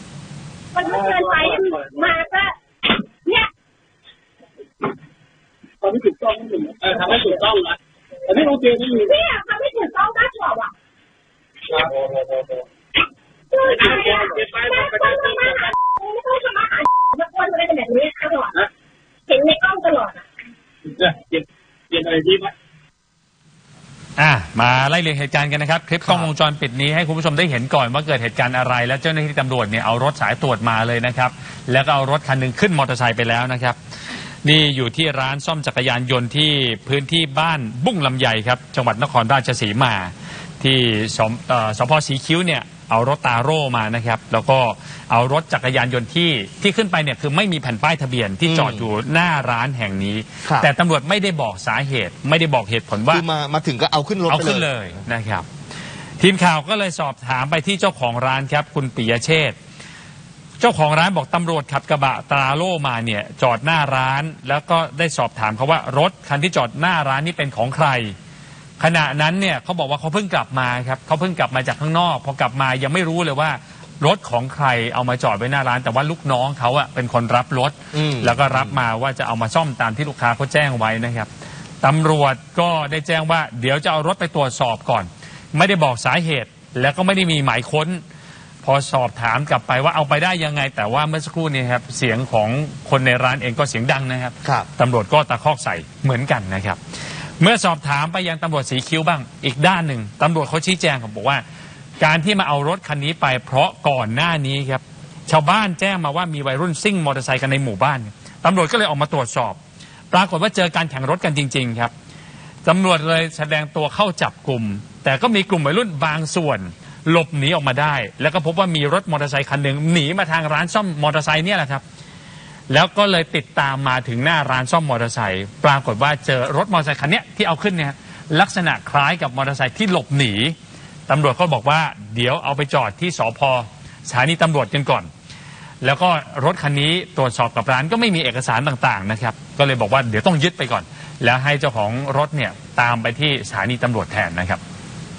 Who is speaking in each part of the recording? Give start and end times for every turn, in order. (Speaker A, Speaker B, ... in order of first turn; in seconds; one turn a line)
Speaker A: 0.7-2.5
Speaker B: 0.8-1.8
Speaker B: 5.8-9.1
Speaker A: 9.0-10.7
Speaker B: 11.7-12.4
Speaker A: 13.5-18.6
Speaker B: 13.6-15.7
Speaker A: 19.3-20.2
Speaker B: 20.9-22.5
Speaker C: 24.2-33.8
Speaker D: 26.1-26.3
Speaker C: 34.4-53.2
Speaker D: 48.5-48.9
Speaker D: 50.5-50.7
Speaker D: 53.1-54.7
Speaker C: 54.3-55.5
Speaker C: 56.2-59.6
Speaker C: 60.6-68.2
Speaker C: 68.8-81.3
Speaker D: 77.9-78.8
Speaker C: 81.8-88.0
Speaker C: 88.6-96.8
Speaker C: 97.4-101.4
Speaker C: 102.0-109.6
Speaker C: 110.1-111.9
Speaker C: 112.7-121.8
Speaker C: 122.7-130.6
Speaker C: 131.1-135.1
Speaker C: 135.8-144.6